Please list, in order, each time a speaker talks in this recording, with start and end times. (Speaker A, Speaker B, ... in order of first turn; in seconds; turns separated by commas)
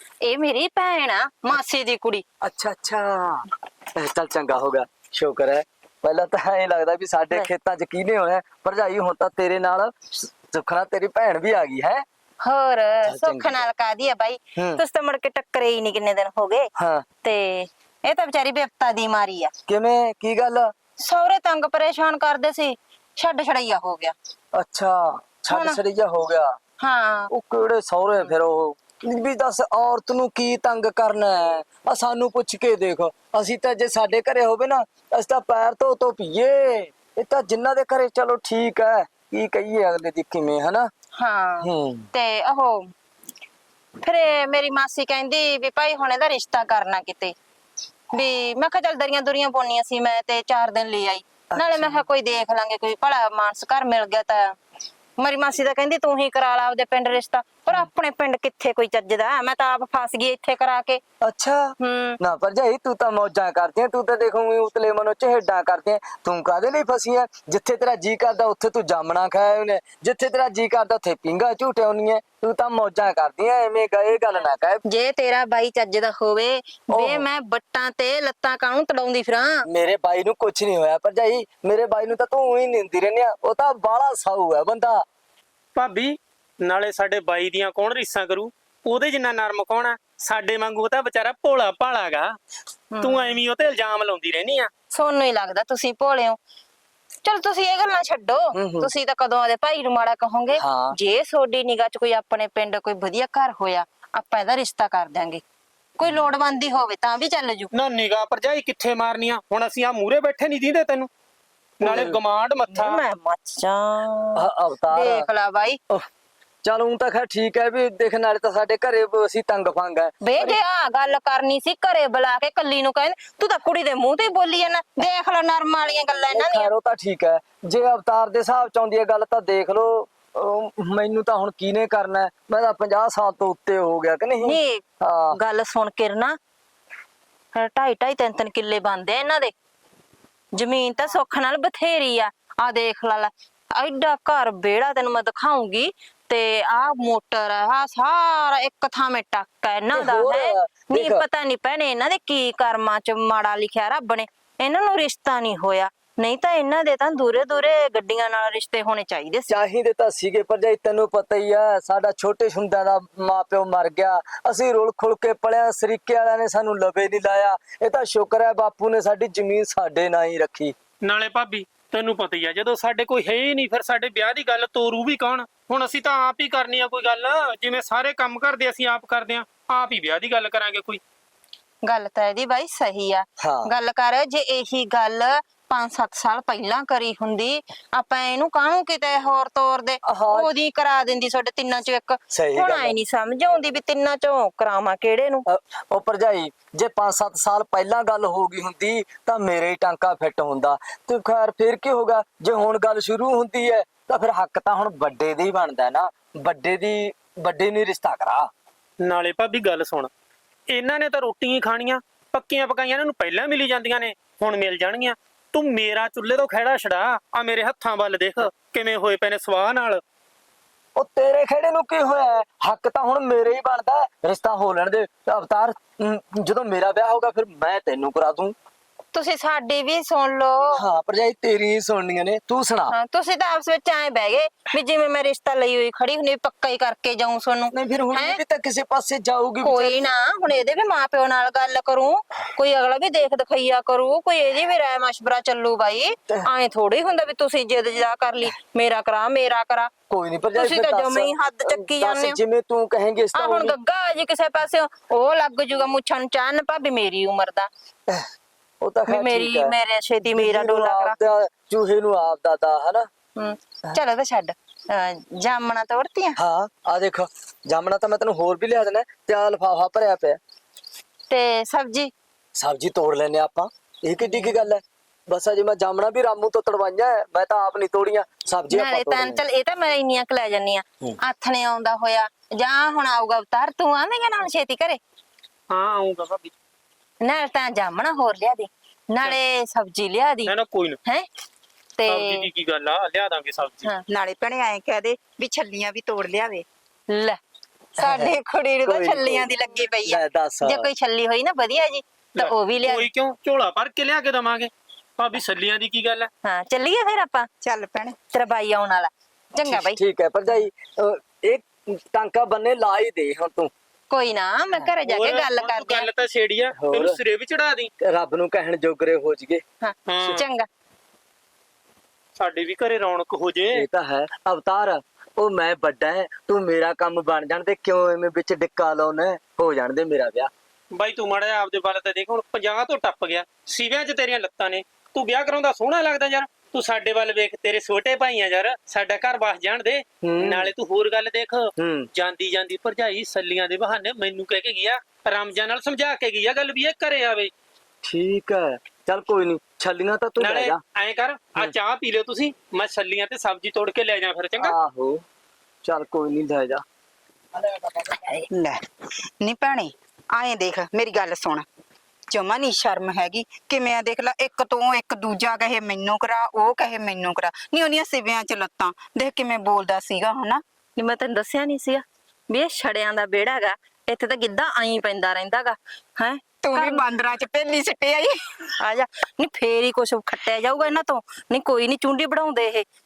Speaker A: 0.2-2.2, Speaker B: 2.4-12.1, Speaker A: 12.4-16.7, Speaker B: 13.1-13.7, Speaker B: 14.6-14.8, Speaker B: 16.8-17.1, Speaker A: 17.2-19.5, Speaker B: 19.7-20.7, Speaker A: 21.0-24.1, Speaker B: 24.5-26.6, Speaker A: 25.5-25.8, Speaker A: 26.8-27.3, Speaker B: 27.3-40.9, Speaker A: 41.2-42.9, Speaker B: 41.6-42.1, Speaker A: 44.0-47.4, Speaker A: 48.1-54.6, Speaker B: 51.5-52.0, Speaker A: 55.2-61.0, Speaker B: 61.2-74.8, Speaker A: 61.8-62.2, Speaker A: 74.8-79.7, Speaker B: 76.9-77.2, Speaker B: 79.7-85.0, Speaker C: 85.8-92.3, Speaker A: 92.9-93.4, Speaker C: 93.0-94.7, Speaker A: 94.9-96.4, Speaker A: 97.2-105.4, Speaker B: 98.5-98.9, Speaker B: 100.6-101.0, Speaker A: 106.0-107.7, Speaker C: 107.7-111.1, Speaker C: 111.8-113.0, Speaker B: 111.8-112.2, Speaker A: 112.7-115.8, Speaker B: 114.4-115.3, Speaker B: 116.6-120.6, Speaker A: 120.2-126.7, Speaker B: 126.3-135.4, Speaker A: 134.4-136.4, Speaker A: 137.6-139.6, Speaker A: 140.6-159.5, Speaker B: 149.9-151.2, Speaker B: 159.5-170.8, Speaker C: 171.0-181.0, Speaker A: 181.8-195.5, Speaker B: 183.4-183.7, Speaker B: 190.0-190.5, Speaker B: 192.3-193.0, Speaker B: 195.5-208.5, Speaker C: 209.0-210.1, Speaker C: 210.7-220.0, Speaker B: 221.0-228.6, Speaker A: 229.1-230.8, Speaker B: 230.7-232.9, Speaker A: 232.9-238.4, Speaker B: 237.7-240.0, Speaker A: 239.6-249.9, Speaker B: 250.1-253.8, Speaker A: 250.6-252.4, Speaker A: 253.3-257.7, Speaker B: 258.8-263.1, Speaker A: 259.1-261.2, Speaker A: 263.4-266.4, Speaker B: 266.4-270.4, Speaker A: 271.3-272.1, Speaker B: 272.6-279.4, Speaker A: 274.2-274.6, Speaker A: 278.7-285.0, Speaker C: 285.7-286.5, Speaker A: 287.2-290.5, Speaker C: 290.5-291.0, Speaker A: 292.0-292.5, Speaker C: 292.1-293.9, Speaker D: 294.1-296.7, Speaker A: 297.1-297.4, Speaker A: 298.0-303.1, Speaker B: 298.0-300.9, Speaker C: 302.4-306.3, Speaker A: 306.4-307.5, Speaker D: 307.6-308.2, Speaker A: 308.3-310.0, Speaker B: 309.7-313.7, Speaker A: 314.1-316.1, Speaker C: 315.1-317.9, Speaker B: 316.8-317.2, Speaker B: 318.0-319.6, Speaker A: 319.8-320.7, Speaker C: 320.1-320.4, Speaker B: 320.2-320.4, Speaker C: 322.4-323.9, Speaker B: 323.7-330.5, Speaker C: 330.9-347.5, Speaker B: 340.2-340.7, Speaker B: 341.8-342.1, Speaker B: 348.1-350.8, Speaker C: 350.4-354.8, Speaker B: 354.6-355.2, Speaker B: 355.8-356.8, Speaker A: 358.1-358.5, Speaker D: 358.5-358.8, Speaker D: 359.4-361.7, Speaker D: 362.3-370.6, Speaker A: 371.0-377.0, Speaker D: 376.6-378.4, Speaker A: 378.8-382.9